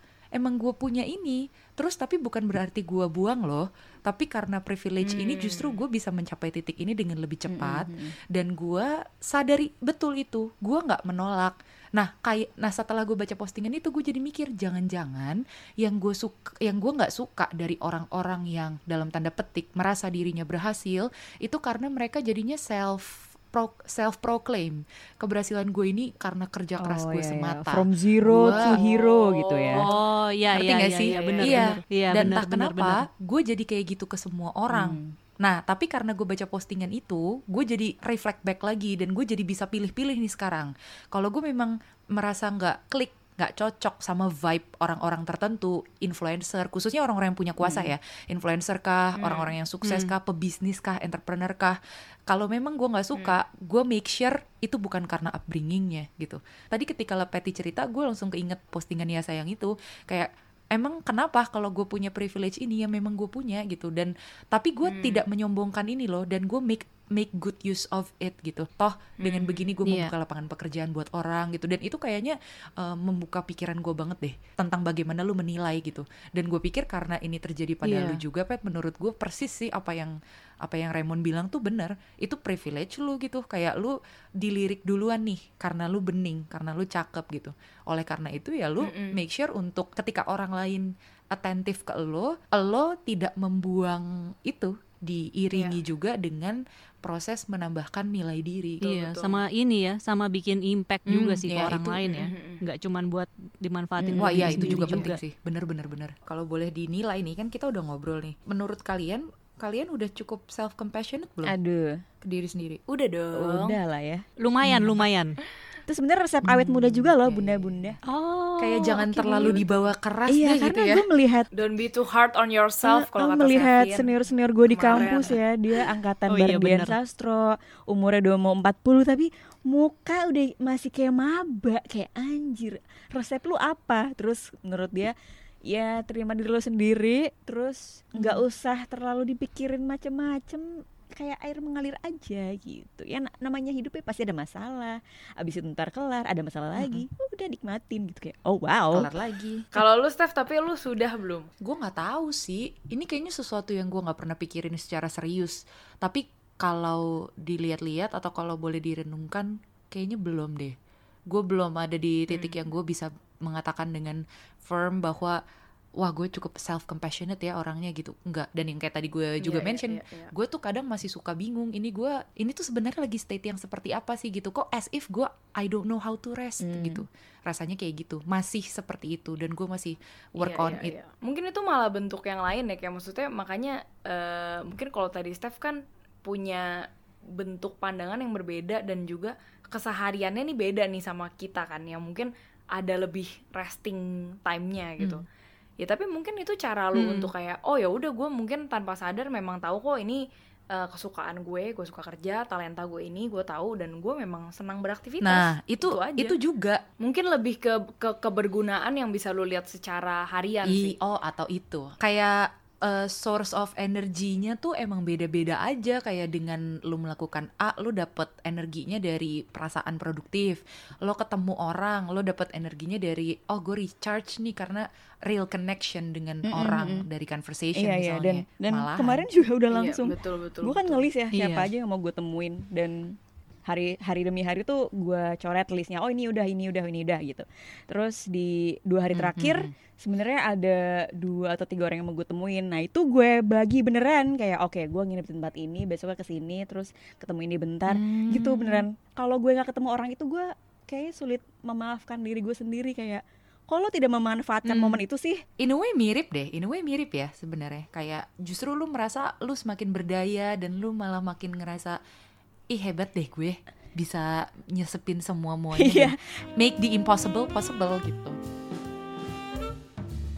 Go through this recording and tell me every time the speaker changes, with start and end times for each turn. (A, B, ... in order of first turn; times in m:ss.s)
0:00.4-0:28.8 A
0:05.0-0:05.8 B
0:07.5-0:08.1 C
0:26.8-0:29.9 C
0:28.6-0:29.9 B
0:29.8-0:33.0 D
0:30.5-0:51.8 A
0:31.1-0:31.8 B
0:34.7-0:35.2 C
0:47.6-0:47.9 C
0:49.2-0:49.5 B
0:49.8-0:50.2 D
0:52.3-1:38.9 A
1:04.8-1:05.2 B
1:09.2-1:09.8 B
1:09.8-1:10.1 D
1:17.8-1:18.2 D
1:28.8-1:29.2 B
1:35.5-1:35.8 B
1:38.8-1:39.4 B
1:38.8-1:45.1 D
1:41.1-1:42.1 A
1:42.0-1:42.6 B
1:44.0-1:45.2 C
1:44.2-1:51.6 A
1:51.4-1:52.0 C
1:52.2-1:53.0 A
1:52.9-1:53.8 B
1:53.4-1:54.2 C
1:54.4-1:55.4 D
1:54.6-1:55.0 A
1:55.9-1:58.0 C
1:56.7-1:57.1 D
1:57.3-1:57.8 B
1:58.0-1:59.6 D
1:58.6-2:01.0 A
1:59.4-1:59.9 B
2:00.3-2:01.5 C
2:01.5-2:04.2 B
2:02.8-2:15.1 C
2:04.7-2:05.4 B
2:04.9-2:05.3 D
2:06.3-2:07.0 D
2:15.7-2:29.1 C
2:26.8-2:27.0 A
2:28.9-2:29.8 A
2:29.7-2:31.5 B
2:31.6-2:40.7 A
2:41.3-2:45.4 A
2:42.3-2:42.6 B
2:46.0-3:01.0 A
2:49.4-2:50.3 B
3:00.4-3:06.7 B
3:07.4-3:15.2 B
3:15.8-3:20.2 B
3:16.9-3:17.3 D
3:20.7-3:26.4 B
3:25.2-3:26.8 A
3:27.0-3:31.0 B
3:30.6-3:49.3 A
3:46.4-3:47.1 C
3:47.8-3:53.2 C
3:49.7-3:51.1 B
3:51.3-3:51.7 D
3:53.7-4:15.4 C
3:59.1-3:59.7 A
4:07.9-4:08.8 A
4:14.6-4:15.0 A
4:15.6-4:22.0 A
4:22.7-4:28.4 A
4:25.7-4:26.2 C